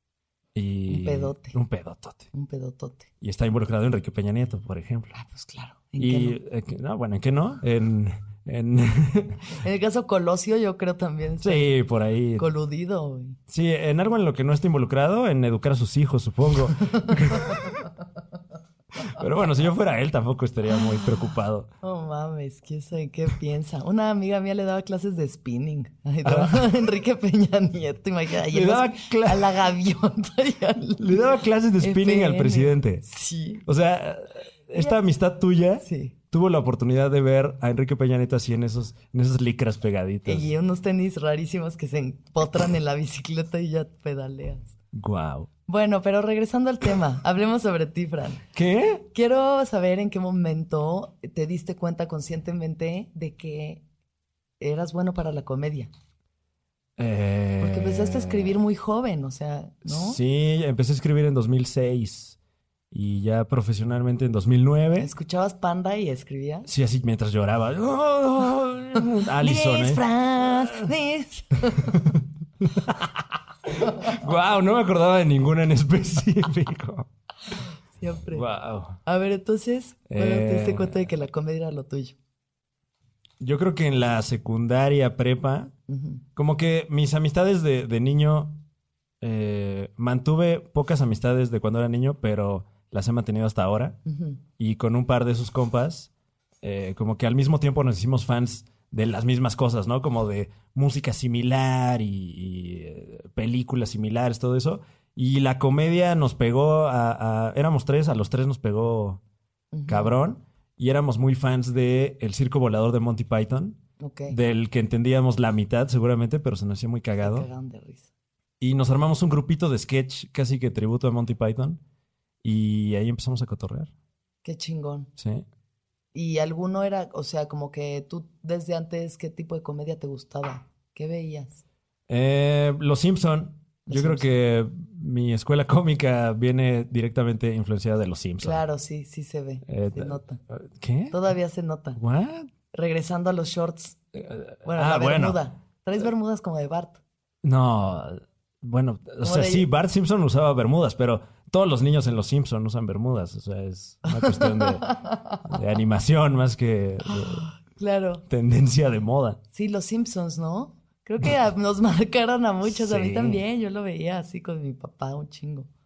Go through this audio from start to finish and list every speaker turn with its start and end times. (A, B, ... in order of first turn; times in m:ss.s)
0:00.5-0:02.3 A
0:00.9-0:01.6 B
0:02.3-0:03.1 B
0:03.2-0:05.1 A
0:05.1-0:06.4 B
0:06.0-0:09.4 A
0:09.6-0:11.7 B
0:11.4-0:12.5 A
0:12.4-0:13.4 B
0:13.5-0:17.8 A
0:17.1-0:17.4 B
0:19.0-0:21.7 A
0:21.8-0:31.2 B
0:26.2-0:26.7 A
0:28.4-0:29.6 A
0:31.0-0:33.0 A
0:31.8-0:33.6 B
0:33.6-0:40.5 A
0:35.8-0:36.1 B
0:40.2-0:44.7 B
0:44.9-0:45.5 A
0:45.7-0:48.4 B
0:48.5-0:49.1 A
0:49.1-0:53.8 B
0:54.6-0:55.9 B
0:57.0-0:58.6 A
0:57.6-1:00.2 B
0:59.8-1:02.4 A
1:02.9-1:05.1 A
1:05.0-1:06.7 B
1:06.6-1:10.9 A
1:09.4-1:11.9 B
1:11.8-1:17.1 A
1:18.0-1:18.4 B
1:18.3-1:19.0 A
1:19.0-1:22.1 B
1:20.1-1:21.1 A
1:23.4-1:25.7 A
1:25.9-1:26.2 B
1:26.4-1:28.6 A
1:29.2-1:34.0 A
1:34.0-1:34.4 B
1:34.6-1:36.1 A
1:36.6-1:49.2 A
1:49.7-1:50.2 B
1:49.9-1:53.8 A
1:54.0-1:54.4 B
1:54.3-1:57.5 A
1:57.2-1:58.1 B
1:58.6-2:01.8 A
2:02.4-2:03.9 A
2:04.4-2:05.1 B
2:05.2-2:05.4 A
2:06.1-2:11.6 B
2:12.1-2:18.6 A
2:13.9-2:14.3 B
2:18.4-2:20.4 B
2:19.7-2:21.2 A
2:21.1-2:22.0 B
2:22.0-2:22.5 A
2:22.7-2:24.0 B
2:24.1-2:25.4 A
2:24.6-2:27.0 B
2:27.4-2:34.9 A
2:29.2-2:29.7 B
2:34.0-2:35.6 B
2:35.4-2:37.5 A
2:37.1-2:38.2 B
2:38.3-2:39.4 A
2:39.5-2:45.7 B
2:42.6-2:43.4 A